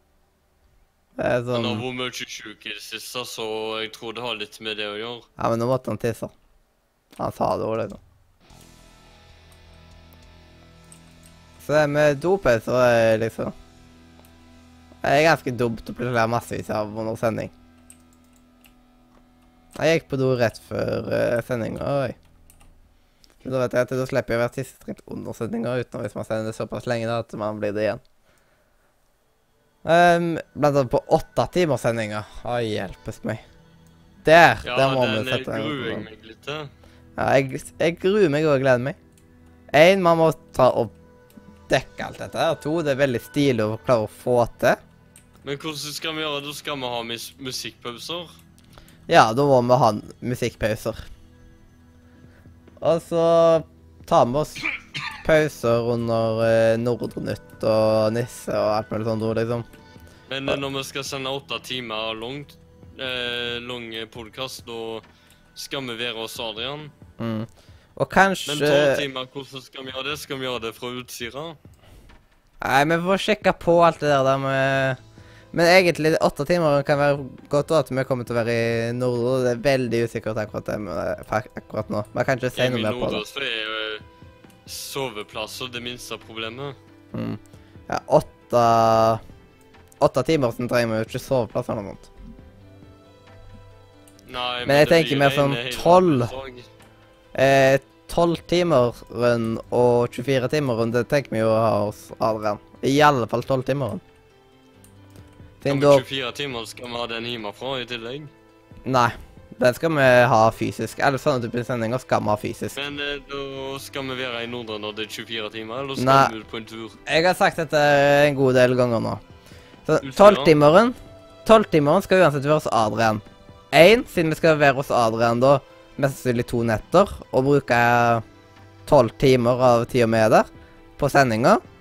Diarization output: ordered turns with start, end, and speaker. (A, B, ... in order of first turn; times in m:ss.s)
0:01.2-0:01.8 A
0:01.5-0:05.3 B
0:05.4-0:06.3 A
0:07.2-0:08.0 A
0:11.6-0:13.5 A
0:15.0-0:17.5 A
0:19.8-0:22.2 A
0:23.4-0:28.0 A
0:29.8-0:33.4 A
0:34.2-0:36.0 A
0:34.6-0:36.7 B
0:37.2-0:39.0 A
0:39.7-0:40.9 A
0:41.7-0:44.8 A
0:45.4-0:48.3 B
0:49.1-0:51.0 A
0:52.8-0:59.6 A
1:00.3-1:05.0 B
1:05.5-1:06.9 B
1:07.2-1:09.0 A
1:08.5-1:11.6 B
1:12.6-1:15.0 A
1:15.5-1:23.2 A
1:22.5-1:24.0 B
1:24.6-1:26.8 B
1:27.1-1:29.2 A
1:30.0-1:32.1 A
1:34.2-1:36.7 B
1:34.7-1:36.3 A
1:37.3-1:44.0 A
1:45.6-1:46.0 A
1:45.7-1:48.3 B
1:48.8-1:52.8 A
1:52.7-1:57.0 B
1:56.0-1:56.3 A
1:57.0-1:59.2 A
1:59.8-2:08.2 A
2:00.0-2:00.5 B
2:08.8-2:10.5 A
2:11.0-2:11.6 A